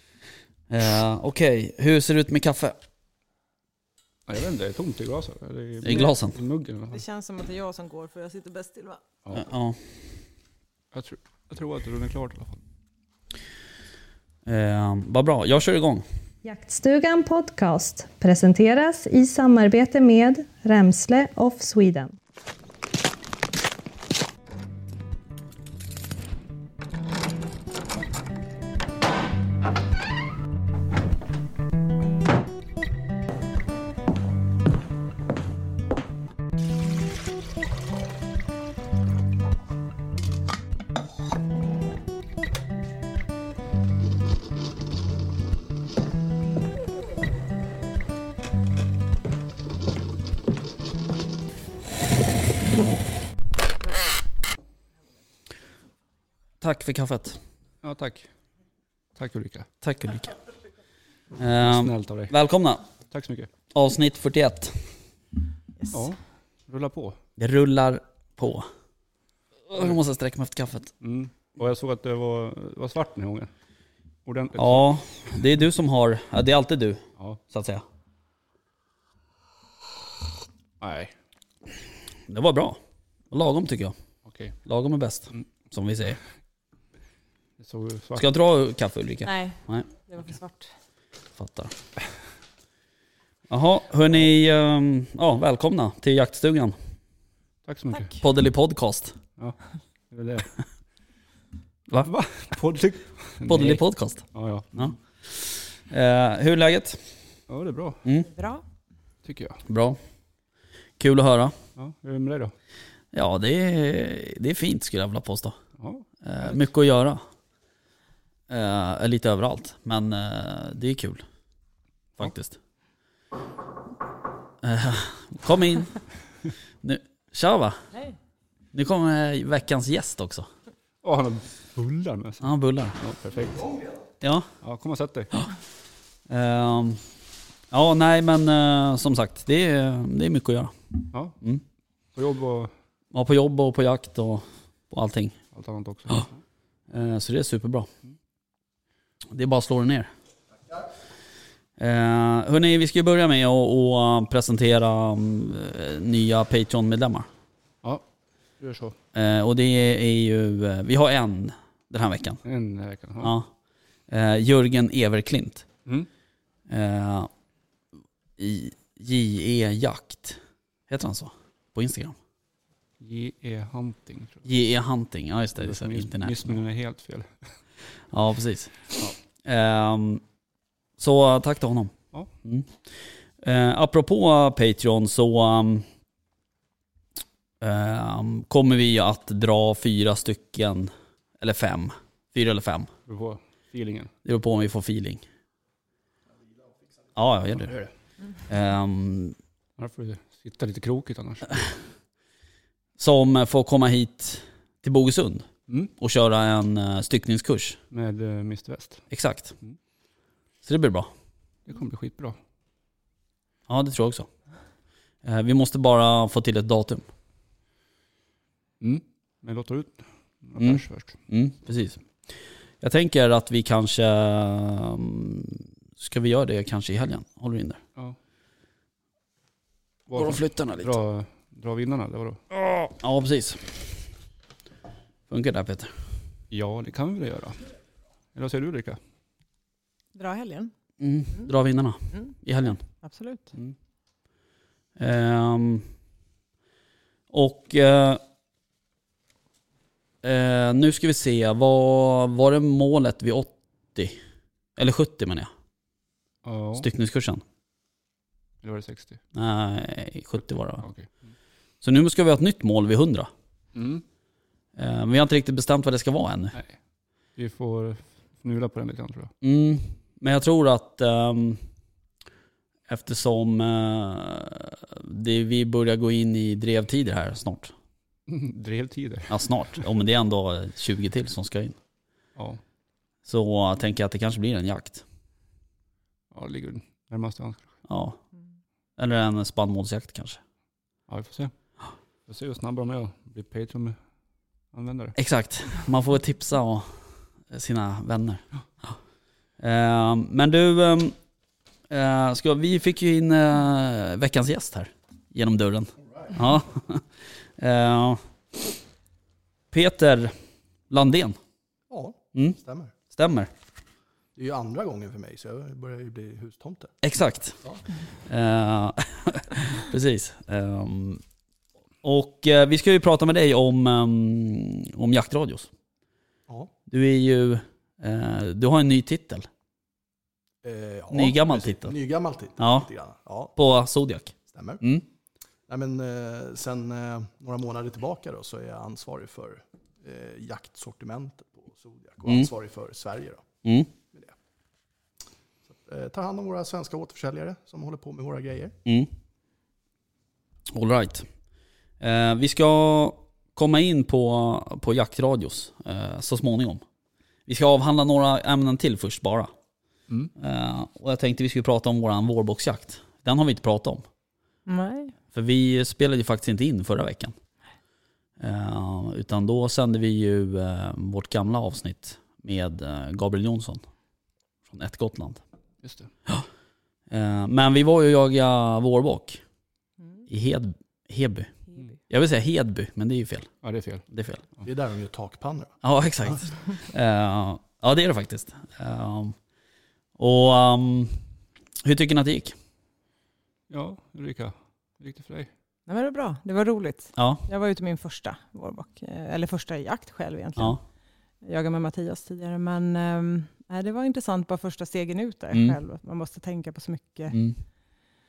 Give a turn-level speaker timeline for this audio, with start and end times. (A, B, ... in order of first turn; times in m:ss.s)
0:00.7-0:02.8 A
0:04.3-0:07.0 B
0:05.8-0:06.4 A
0:06.9-0:09.0 C
0:09.3-0:09.8 A
0:10.9-0:12.6 B
0:14.4-0:16.0 A
0:16.4-0:22.1 D
0:56.6-0:57.4 A
0:57.8-0:58.3 B
0:59.2-0:59.7 B
0:59.8-1:00.4 A
1:01.4-1:02.8 A
1:01.6-1:02.3 B
1:03.1-1:03.5 B
1:03.7-1:04.9 A
1:05.9-1:07.2 B
1:07.4-1:08.7 A
1:09.7-1:10.9 A
1:11.0-1:13.5 B
1:14.2-1:14.9 B
1:14.5-1:17.8 A
1:20.8-1:21.1 B
1:22.3-1:22.8 A
1:23.3-1:23.9 A
1:24.2-1:24.5 B
1:24.6-1:26.2 A
1:27.6-1:28.2 B
1:28.2-1:29.9 A
1:29.2-1:30.7 C
1:31.4-1:31.7 A
1:33.5-1:36.8 A
1:37.6-1:38.1 B
1:38.2-1:39.2 A
1:40.1-1:40.5 B
1:42.0-1:43.8 B
1:43.5-1:47.1 A
1:44.3-1:44.9 B
1:47.5-1:48.0 B
1:48.2-1:48.6 C
1:49.2-1:49.6 B
1:49.6-1:50.0 A
1:51.0-1:51.6 A
1:51.8-1:52.5 B
1:53.1-1:55.6 A
1:55.8-1:56.0 B
1:56.2-1:57.2 A
1:58.5-2:01.2 A
2:02.2-2:02.6 A
2:04.6-2:06.0 A
2:06.8-2:07.8 A
2:08.7-2:10.5 A
2:11.0-2:12.5 B
2:12.4-2:13.0 A
2:13.0-2:13.8 B
2:14.2-2:14.5 A
2:14.6-2:15.4 B
2:16.3-2:17.0 A
2:17.7-2:20.7 A
2:21.1-2:21.4 B
2:22.1-2:22.7 B
2:23.1-2:25.4 A
2:25.5-2:26.4 B
2:26.9-2:27.9 A
2:29.3-2:30.1 A
2:31.8-2:37.3 A
2:38.6-2:39.0 B
2:39.1-2:42.4 A
2:42.4-2:43.3 B
2:43.2-2:43.5 A
2:44.1-2:45.6 A
2:46.7-2:47.3 A
2:48.4-2:52.2 A
2:53.0-2:54.4 B
2:54.4-2:56.6 A
2:55.6-2:57.3 B
2:58.1-2:58.8 A
2:59.4-3:00.2 A
3:01.0-3:01.9 A
3:02.4-3:05.9 A
3:07.6-3:12.9 A
3:13.1-3:14.1 B
3:14.2-3:15.2 A
3:17.2-3:17.8 A
3:18.5-3:19.4 A
3:19.8-3:21.7 B
3:23.0-3:27.8 A
3:27.9-3:29.0 B
3:29.1-3:29.5 A
3:30.6-3:31.1 A
3:31.6-3:32.4 B
3:33.7-3:34.3 A
3:35.2-3:37.0 A
3:38.8-3:41.2 B
3:40.6-3:42.0 A
3:42.8-3:47.8 A
3:50.1-3:52.4 B
3:50.1-3:50.9 A
3:52.6-3:53.8 A
3:55.3-3:55.9 A
3:56.5-3:57.7 B
3:58.3-3:59.0 B
4:00.1-4:00.7 C
4:01.0-4:02.8 A
4:03.0-4:03.5 C
4:05.0-4:05.9 A
4:07.3-4:08.2 A
4:10.2-4:14.2 A
4:14.8-4:15.5 A
4:16.4-4:16.9 B
4:16.8-4:17.4 A
4:18.6-4:19.2 B
4:19.3-4:20.8 A
4:20.8-4:21.1 B
4:21.8-4:23.3 A
4:23.7-4:24.0 B
4:24.8-4:26.6 A
4:27.4-4:29.3 B
4:29.4-4:31.6 A
4:32.9-4:37.7 A
4:38.3-4:39.5 B
4:39.3-4:41.8 A
4:42.4-4:42.6 B
4:43.2-4:45.0 A
4:46.3-4:47.7 B
4:47.9-4:48.2 A
4:49.0-4:50.4 A
4:51.1-4:51.5 B
4:52.3-4:54.0 B
4:54.7-4:55.2 B
4:55.2-4:58.9 A
4:59.6-5:01.1 A
5:01.9-5:07.0 A
5:07.6-5:08.2 A
5:09.7-5:10.4 A
5:10.9-5:11.4 A
5:11.9-5:12.9 E
5:13.1-5:13.5 A
5:14.4-5:16.9 E
5:17.0-5:17.6 A
5:18.2-5:21.2 A
5:22.0-5:25.7 A
5:26.9-5:29.5 A
5:30.6-5:33.5 E
5:31.1-5:31.9 A
5:32.6-5:32.9 A
5:33.6-5:35.0 A
5:34.5-5:34.8 E
5:35.7-5:43.4 E
5:43.6-5:43.9 A
5:45.7-5:48.7 E
5:50.7-5:51.3 A
5:52.0-5:56.8 A
5:57.5-5:59.5 A
6:00.4-6:04.0 A
6:04.6-6:05.1 C
6:05.3-6:07.4 A
6:08.4-6:13.8 A
6:14.7-6:15.4 A
6:15.8-6:16.1 B
6:17.1-6:19.4 A
6:20.3-6:21.5 A
6:22.1-6:23.5 A
6:23.6-6:24.0 B
6:24.1-6:24.4 A
6:24.6-6:25.7 E
6:25.8-6:29.4 A
6:30.2-6:31.2 A
6:31.8-6:32.6 A
6:33.7-6:35.5 B
6:35.9-6:40.8 C
6:37.2-6:37.4 A
6:41.4-6:47.4 C
6:47.3-6:47.6 A